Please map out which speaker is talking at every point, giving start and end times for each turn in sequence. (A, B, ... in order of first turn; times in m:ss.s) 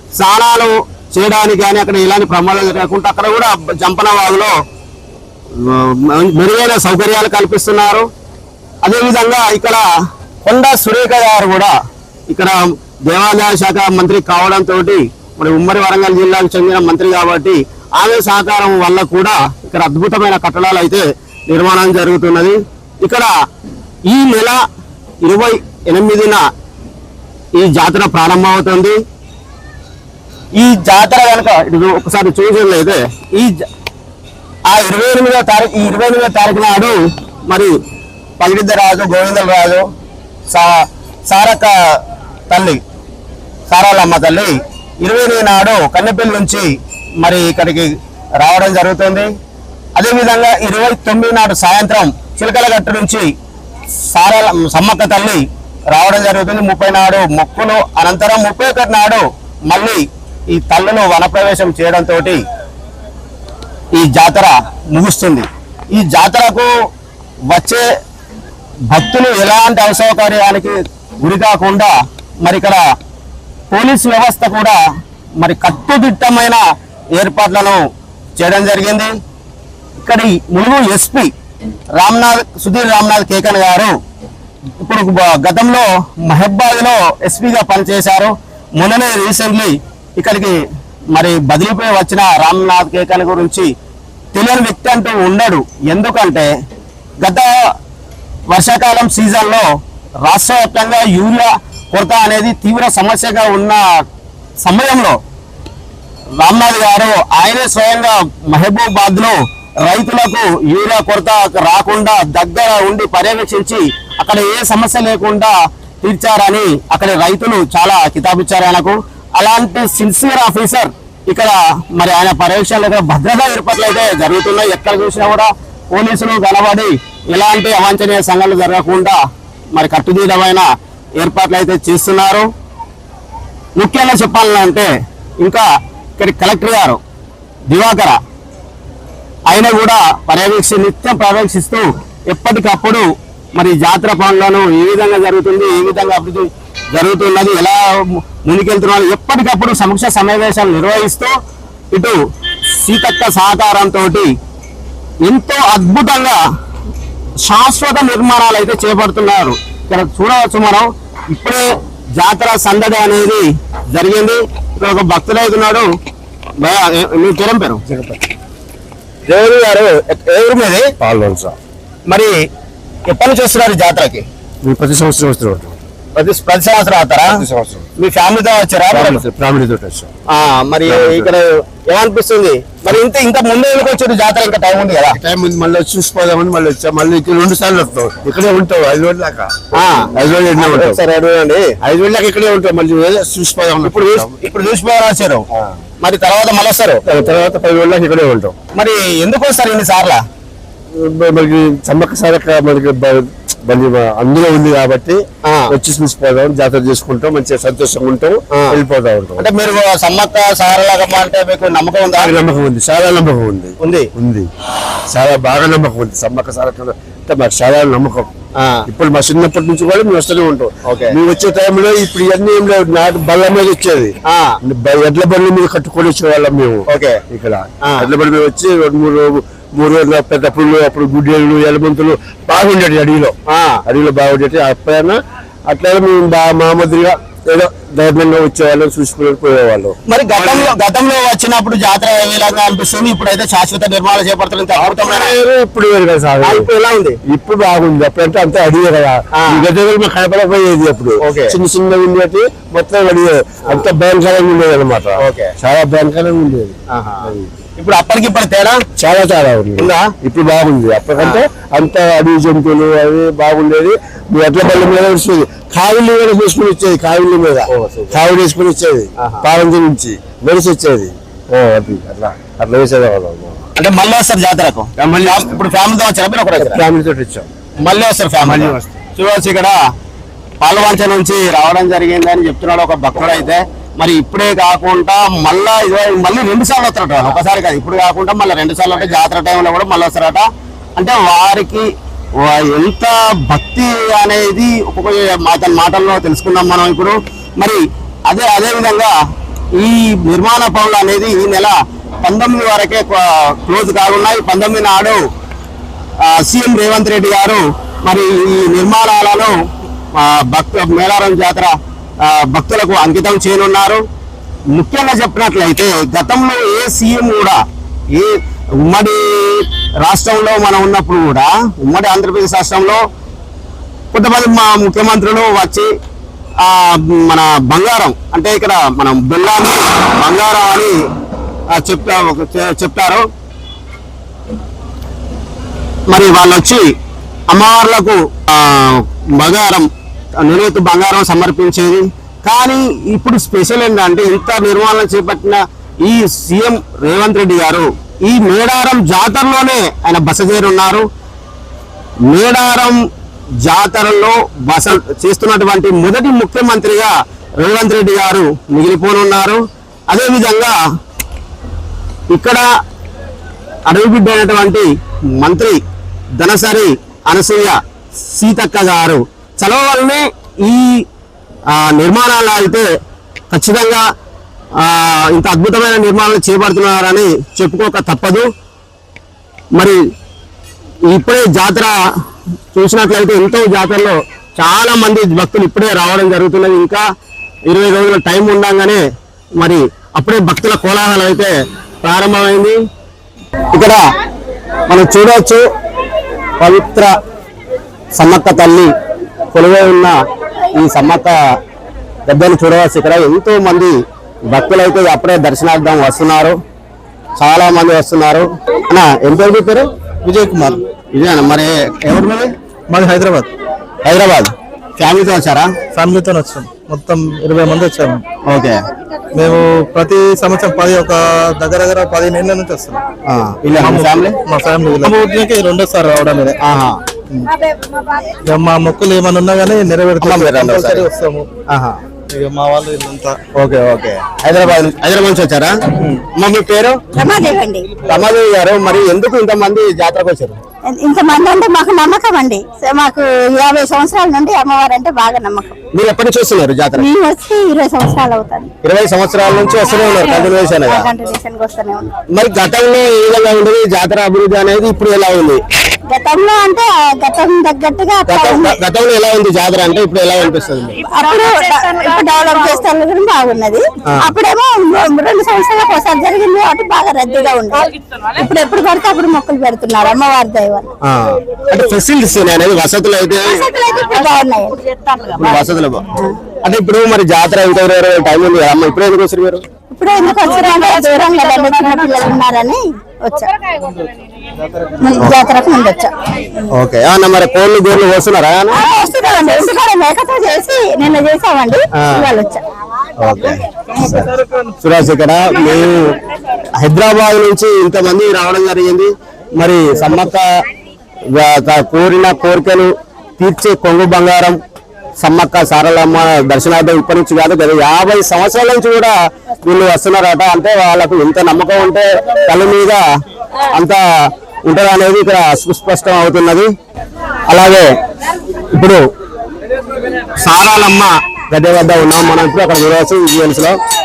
0:00.2-0:04.5 A
0:05.6-0:08.0 A
0:08.8-0:09.8 A
0:10.4-0:11.7 A
0:12.3-0:23.3 A
0:24.1-0:24.6 A
0:25.2-0:26.4 A
0:27.6-0:29.0 A
0:30.5-0:33.6 A
0:34.6-0:37.0 A
0:37.5-0:37.7 A
0:38.4-0:39.8 A
0:40.5-0:42.0 A
0:42.5-0:42.8 A
0:43.7-0:46.7 A
0:47.2-0:49.3 A
0:50.0-0:53.3 A
0:54.1-1:02.4 A
1:03.9-1:06.7 A
1:07.5-1:07.8 A
1:08.9-1:12.8 A
1:13.7-1:14.8 A
1:15.4-1:16.6 A
1:17.1-1:17.8 A
1:18.4-1:19.1 A
1:20.0-1:21.3 A
1:22.0-1:23.9 A
1:24.8-1:30.6 A
1:31.1-1:33.7 A
1:34.3-1:36.5 A
1:37.2-1:37.5 A
1:38.5-1:39.6 A
1:40.2-1:43.8 A
1:44.6-1:45.2 A
1:46.4-2:09.2 A
2:09.7-2:10.6 A
2:11.2-2:12.5 A
2:13.8-2:14.9 A
2:15.4-2:15.6 A
2:16.2-2:17.0 A
2:17.7-2:18.2 A
2:19.5-2:31.3 A
2:31.9-2:32.2 A
2:32.7-2:34.3 A
2:35.2-2:36.4 A
2:37.4-2:41.6 A
2:42.2-2:45.8 A
2:46.6-2:47.8 A
2:47.9-2:48.2 B
2:49.2-2:50.8 A
2:51.0-2:51.5 B
2:52.1-2:52.3 A
2:53.1-2:54.2 A
2:54.6-2:55.8 B
2:56.2-2:57.4 A
2:57.4-2:57.8 B
2:58.0-2:59.2 A
2:58.9-3:00.1 B
3:00.3-3:05.2 A
3:00.9-3:01.3 B
3:05.1-3:09.5 B
3:09.7-3:11.7 A
3:10.1-3:11.0 B
3:11.8-3:14.4 B
3:13.8-3:15.4 A
3:16.0-3:17.0 A
3:17.0-3:18.6 B
3:18.7-3:20.2 A
3:20.9-3:29.4 B
3:28.5-3:28.8 A
3:29.4-3:32.3 A
3:32.1-3:34.5 B
3:33.8-3:34.1 A
3:35.1-3:38.3 B
3:38.9-3:53.3 B
3:40.8-3:41.1 A
3:44.3-3:44.6 A
3:46.9-3:47.2 A
3:53.5-3:53.8 A
3:53.8-4:00.7 B
4:00.1-4:05.4 A
4:04.8-4:06.7 B
4:06.4-4:07.2 A
4:07.2-4:17.5 B
4:09.3-4:09.6 A
4:11.2-4:11.5 A
4:15.2-4:15.5 A
4:16.9-4:18.8 A
4:19.0-4:33.6 B
4:19.8-4:20.1 A
4:29.2-4:29.4 A
4:33.8-4:36.8 A
4:35.0-4:35.5 B
4:36.6-4:37.5 B
4:37.8-4:39.8 A
4:38.4-4:38.9 B
4:40.6-4:50.4 A
4:51.0-4:51.9 A
4:52.4-4:59.1 A
4:59.8-5:05.2 A
5:06.2-5:09.5 A
5:10.1-5:14.0 A
5:14.7-5:17.6 A
5:18.1-5:23.0 A
5:24.1-5:25.9 A
5:26.6-5:30.9 A
5:31.7-5:33.2 A
5:36.1-5:36.8 A
5:37.5-5:39.9 A
5:40.4-5:51.0 A
5:52.3-5:53.0 A
5:53.6-6:00.8 A
6:02.3-6:02.6 A
6:03.9-6:05.8 A
6:06.4-6:11.0 A
6:11.7-6:12.9 A
6:13.5-6:14.0 A
6:14.8-6:18.4 A
6:21.1-6:21.9 A
6:22.7-6:27.0 A
6:27.7-6:29.0 A
6:29.6-6:31.5 A
6:32.0-6:32.8 A
6:33.7-6:34.0 A
6:34.9-6:35.6 A
6:36.6-6:37.1 A
6:38.2-6:38.9 A
6:39.5-6:40.2 A
6:40.7-6:41.3 A
6:42.3-6:43.9 A
6:44.5-6:46.5 A
6:47.4-6:49.8 A
6:51.1-6:52.5 A
6:52.9-6:53.5 C
6:54.0-6:55.7 A
6:55.9-6:58.2 C
6:58.5-6:58.8 A
6:59.3-7:03.0 C
7:03.3-7:04.4 A
7:03.7-7:06.6 C
7:06.6-7:06.9 A
7:08.4-7:11.4 C
7:10.2-7:11.1 A
7:12.3-7:13.4 C
7:13.6-7:15.7 A
7:16.3-7:17.0 A
7:17.1-7:17.9 D
7:18.0-7:20.6 A
7:20.8-7:25.8 D
7:25.9-7:27.1 A
7:27.0-7:28.7 D
7:28.8-7:31.1 A
7:29.8-7:32.1 D
7:32.3-7:35.6 A
7:36.1-7:38.8 D
7:38.2-7:41.0 A
7:41.0-7:50.9 D
7:44.0-7:44.3 A
7:51.0-7:53.6 A
7:53.5-7:55.4 D
7:55.4-7:56.1 A
7:56.6-7:59.6 A
7:59.9-8:03.5 D
8:05.0-8:06.7 D
8:05.1-8:05.4 A
8:06.7-8:08.8 A
8:08.7-8:12.6 D
8:11.9-8:12.3 A
8:13.2-8:16.1 A
8:16.8-8:20.4 A
8:21.3-8:24.6 A
8:25.2-8:33.0 A
8:33.7-8:34.0 A
8:34.7-8:36.7 A
8:37.5-8:37.8 A
8:38.7-8:39.0 A
8:40.4-8:43.8 A